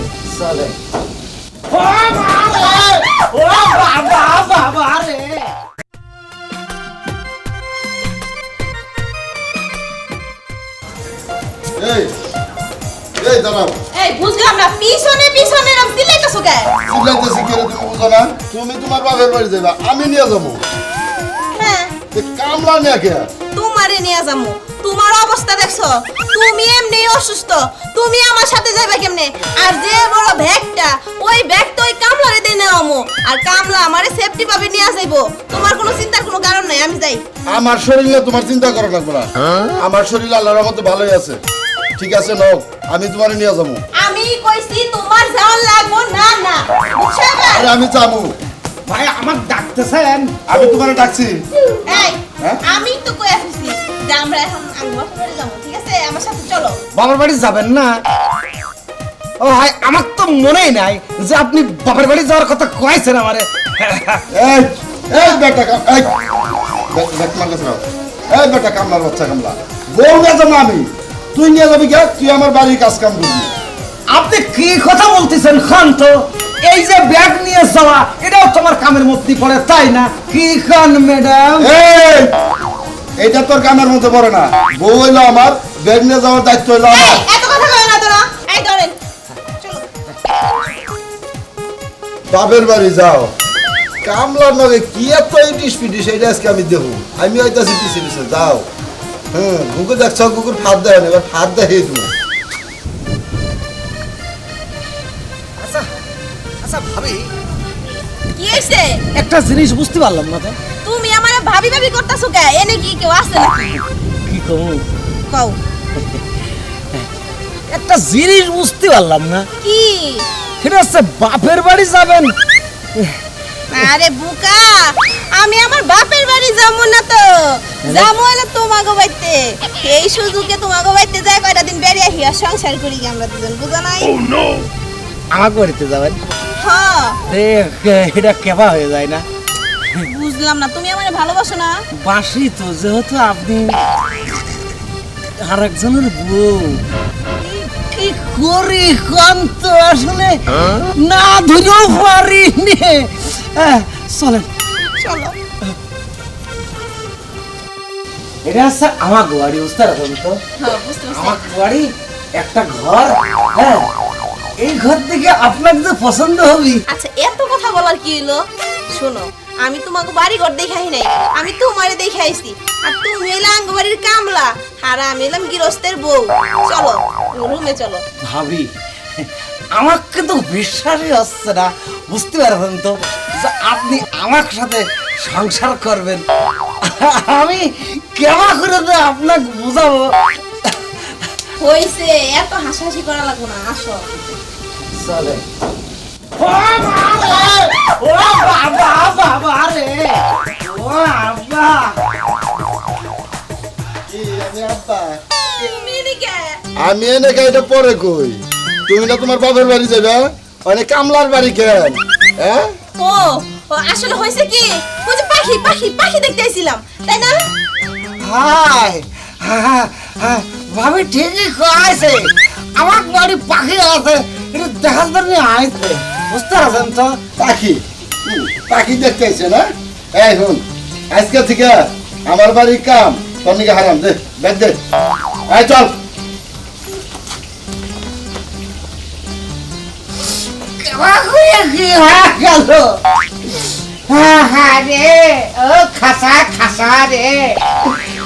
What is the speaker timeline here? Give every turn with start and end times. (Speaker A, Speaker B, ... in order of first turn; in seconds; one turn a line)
Speaker A: 0.3-0.8
Speaker A: 1.7-5.5
Speaker B: 11.8-12.1
Speaker B: 13.2-13.8
Speaker C: 13.9-16.7
Speaker B: 16.9-20.6
Speaker C: 21.5-21.9
Speaker B: 22.1-23.3
Speaker C: 23.5-37.2
Speaker B: 37.5-41.4
Speaker B: 42.0-43.8
Speaker C: 44.0-47.7
Speaker B: 47.5-48.3
Speaker A: 48.9-50.4
Speaker B: 50.5-51.5
Speaker C: 51.8-56.8
Speaker A: 56.9-58.0
Speaker A: 59.4-64.2
Speaker B: 64.3-66.2
Speaker B: 66.9-73.5
Speaker A: 74.1-81.7
Speaker B: 81.6-82.3
Speaker B: 83.2-87.2
Speaker C: 86.9-89.0
Speaker C: 89.6-89.9
Speaker B: 92.3-93.3
Speaker B: 94.0-98.7
Speaker B: 99.3-102.1
Speaker A: 105.6-105.9
Speaker A: 106.6-107.3
Speaker C: 108.2-109.0
Speaker A: 109.1-110.6
Speaker C: 110.8-113.8
Speaker A: 114.3-114.8
Speaker C: 115.3-115.6
Speaker A: 117.7-119.5
Speaker C: 119.6-120.3
Speaker A: 120.6-122.3
Speaker C: 123.7-134.2
Speaker A: 127.8-128.1
Speaker A: 135.3-136.2
Speaker C: 136.6-137.2
Speaker A: 137.3-139.2
Speaker C: 140.0-141.8
Speaker A: 141.9-143.8
Speaker A: 145.4-146.8
Speaker A: 147.4-154.5
Speaker C: 154.9-155.3
Speaker A: 158.4-160.4
Speaker C: 160.6-161.5
Speaker A: 161.1-163.9
Speaker A: 164.6-166.8
Speaker C: 166.9-178.0
Speaker A: 178.3-186.2
Speaker A: 186.8-190.1
Speaker C: 191.6-194.1
Speaker A: 194.9-195.4
Speaker A: 196.4-201.9
Speaker B: 204.1-205.2
Speaker C: 205.6-206.6
Speaker B: 206.8-212.8
Speaker C: 213.0-217.4
Speaker A: 218.2-227.2
Speaker B: 227.4-234.8
Speaker B: 235.5-235.9
Speaker A: 240.8-247.8